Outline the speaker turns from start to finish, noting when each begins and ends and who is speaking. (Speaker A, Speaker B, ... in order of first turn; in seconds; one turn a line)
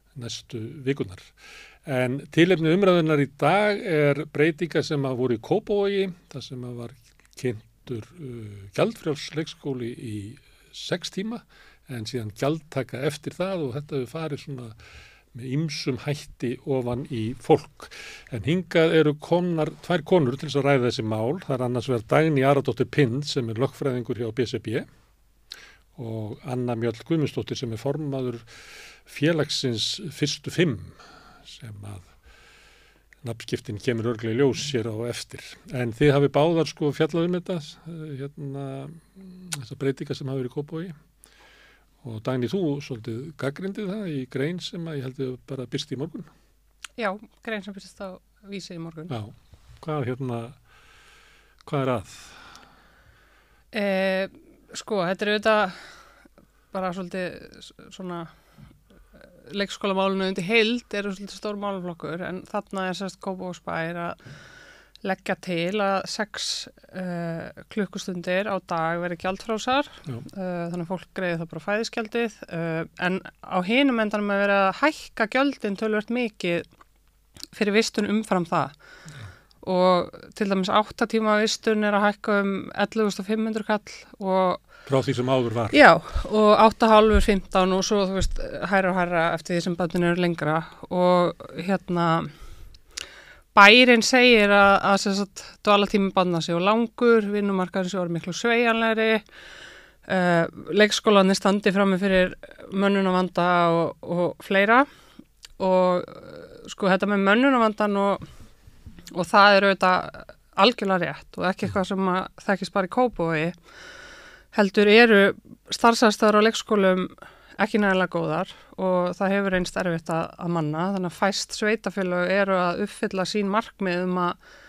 Speaker A: 0.1-1.3
Speaker A: 1.8-14.8
Speaker A: 15.3-24.9
Speaker A: 25.9-28.4
Speaker A: 29.1-32.1
Speaker A: 33.2-41.0
Speaker A: 42.0-46.3
Speaker B: 47.0-49.1
Speaker A: 49.1-50.6
Speaker A: 51.6-52.3
Speaker B: 53.7-55.9
Speaker B: 56.7-58.3
Speaker B: 59.5-64.2
Speaker B: 65.0-76.7
Speaker B: 77.5-78.7
Speaker B: 79.6-84.6
Speaker A: 84.9-85.8
Speaker B: 85.7-92.3
Speaker B: 93.5-99.2
Speaker B: 100.0-104.9
Speaker B: 105.6-108.2
Speaker B: 109.1-113.6
Speaker B: 114.5-124.4